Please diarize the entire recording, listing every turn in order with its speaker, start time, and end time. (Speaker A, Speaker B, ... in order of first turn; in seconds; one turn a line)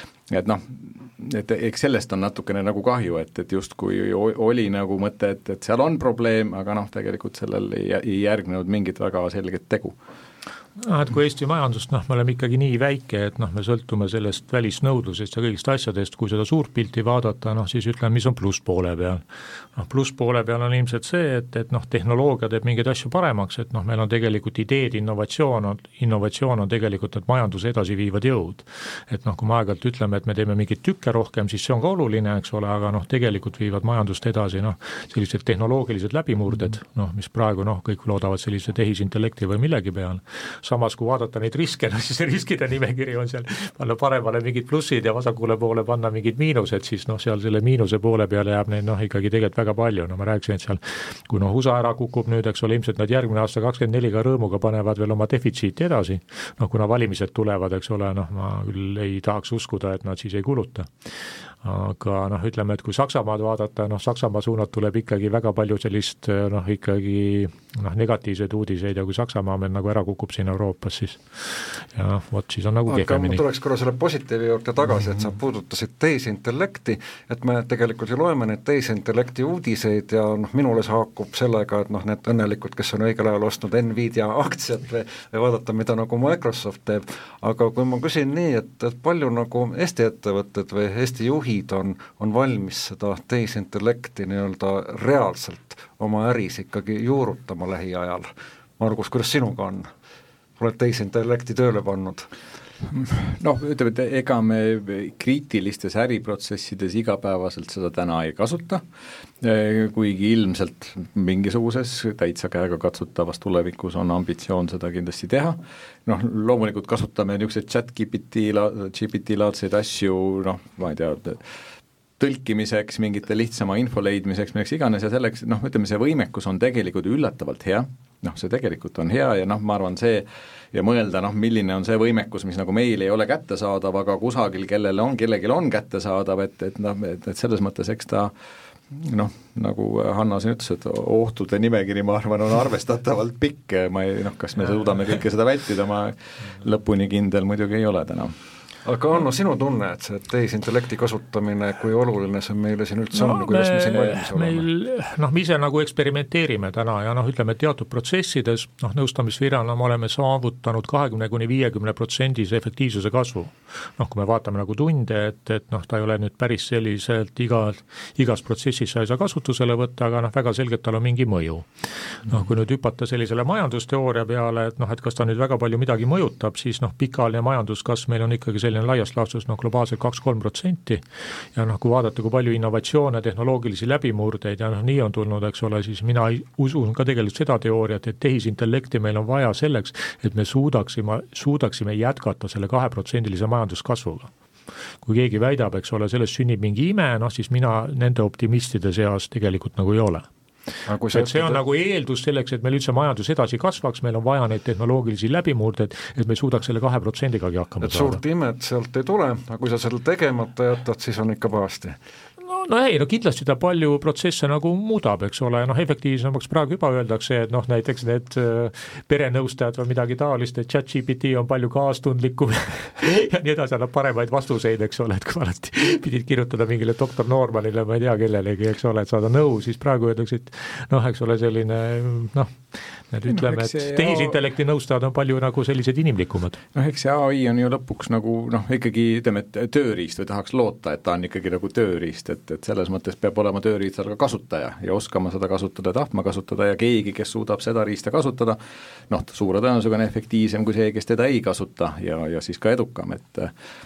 Speaker A: 0.3-10.0
Speaker B: 10.8-19.2
Speaker B: 19.8-61.1
Speaker B: 61.6-73.4
Speaker C: 72.9-99.9
Speaker C: 100.6-102.3
Speaker A: 102.8-108.8
Speaker A: 109.4-121.4
Speaker A: 122.2-138.3
Speaker A: 138.9-148.3
Speaker C: 148.8-154.7
Speaker B: 153.1-181.0
Speaker B: 181.5-194.3
Speaker B: 195.0-200.2
Speaker C: 200.9-201.6
Speaker B: 201.1-208.2
Speaker C: 207.8-212.0
Speaker B: 212.5-236.6
Speaker A: 233.3-234.4
Speaker A: 236.7-248.6
Speaker A: 249.1-253.5